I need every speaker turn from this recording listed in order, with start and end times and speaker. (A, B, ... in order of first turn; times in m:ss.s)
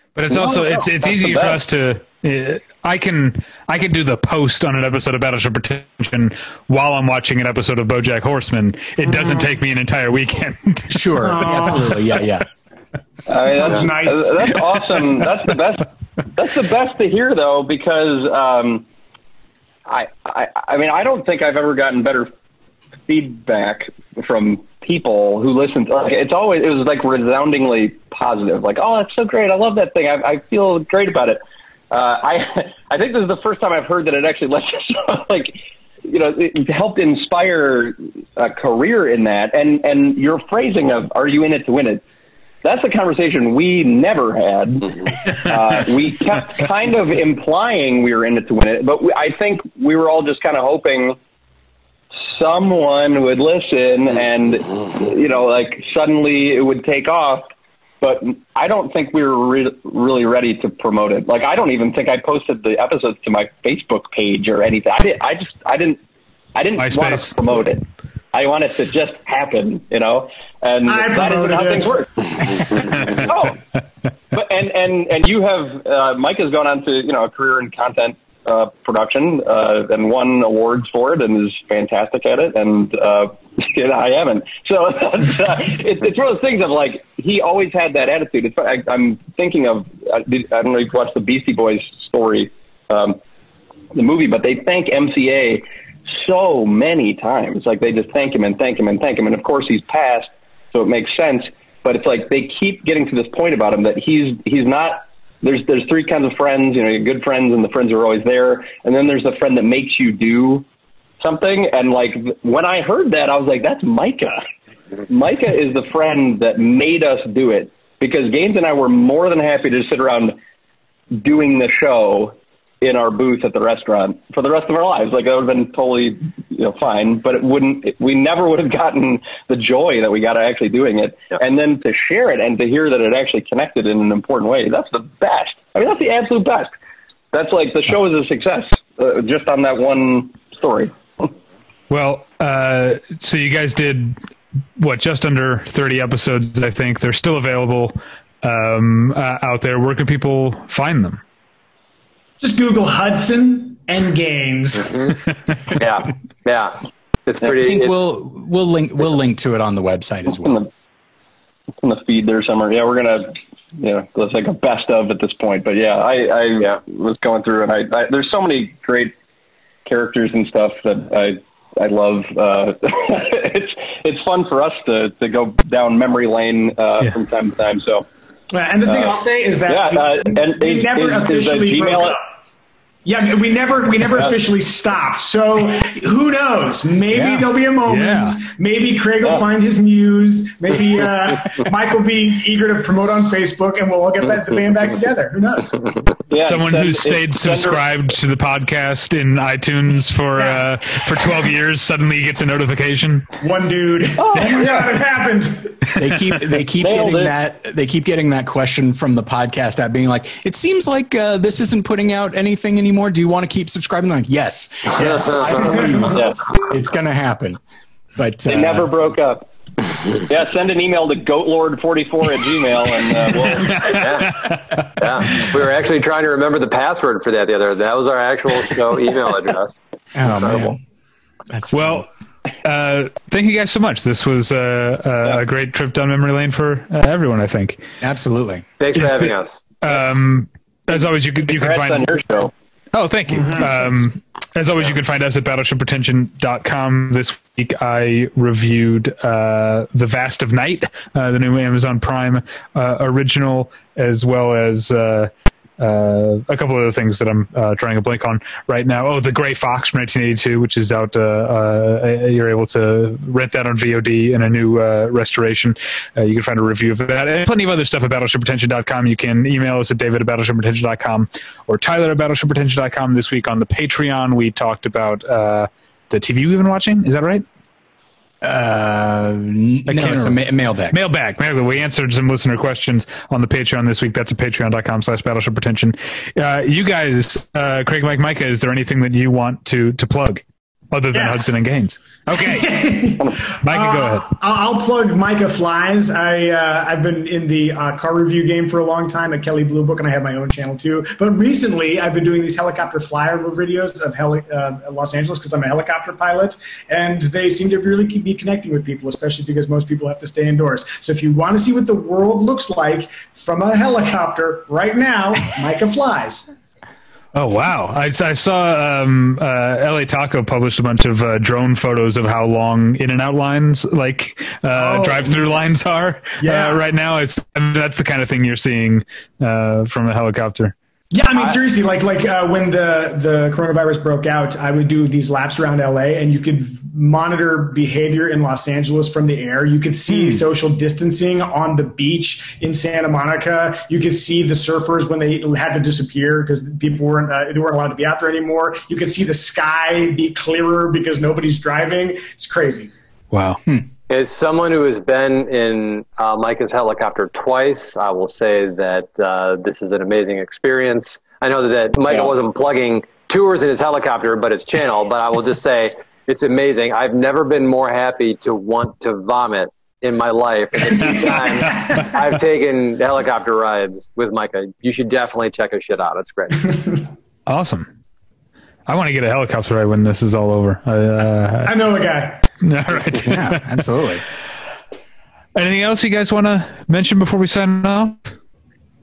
0:00.1-0:11.7 A
0:00.5-0:01.6 B
0:10.9-0:12.5 C
0:11.2-0:12.0 D
0:13.3-0:18.8 B
0:13.4-0:14.6 D
0:19.8-0:22.3 B
0:23.1-0:42.0 B
0:42.6-0:51.2 B
0:52.2-0:57.5 B
0:58.0-1:06.0 B
1:06.5-1:13.6 B
1:06.8-1:07.3 A
1:10.9-1:12.8 D
1:12.7-1:13.5 A
1:14.3-1:33.2 B
1:33.9-1:50.6 B
1:51.2-1:54.4 B
1:55.1-2:00.4 B
2:01.1-2:16.7 B
2:17.3-2:21.3 B
2:21.9-2:24.2 A
2:24.8-2:31.2 A
2:32.4-2:35.1 D
2:35.8-2:37.9 E
2:37.5-2:40.6 C
2:41.8-2:49.1 B
2:49.8-2:58.1 B
2:58.5-3:02.2 D
2:58.8-2:59.2 B
2:59.7-3:02.2 B
3:03.0-3:16.0 D
3:07.1-3:07.4 C
3:07.9-3:08.4 A
3:16.3-3:17.8 B
3:16.4-3:23.3 A
3:20.4-3:20.6 D
3:23.4-3:25.8 D
3:24.2-3:25.0 B
3:26.0-3:37.6 C
3:26.8-3:27.3 B
3:36.0-3:36.4 B
3:38.2-3:38.9 C
3:38.5-3:39.5 B
3:40.1-3:43.8 B
3:43.3-3:45.0 A
3:43.7-3:49.8 E
3:50.2-3:50.8 C
3:50.3-3:50.7 E
3:51.5-3:52.0 C
3:51.7-3:52.1 A
3:52.6-3:57.8 A
3:58.0-3:58.7 C
3:58.8-3:59.6 E
3:58.9-4:02.2 A
4:01.5-4:02.5 B
4:02.9-4:37.4 A
4:38.4-4:41.0 C
4:39.9-4:40.4 A
4:40.9-4:52.7 A
4:51.1-4:51.6 D
4:52.3-5:16.6 D
4:53.6-4:54.3 A
5:17.3-5:30.7 A
5:24.7-5:25.6 D
5:26.4-5:26.8 D
5:31.1-5:52.9 D
5:53.3-5:53.6 A
5:54.1-6:16.6 E
6:11.0-6:12.0 A
6:17.5-6:17.9 A
6:18.8-6:21.8 A
6:21.6-6:22.4 D
6:22.6-6:23.7 A
6:23.2-6:24.2 C
6:25.5-6:28.3 A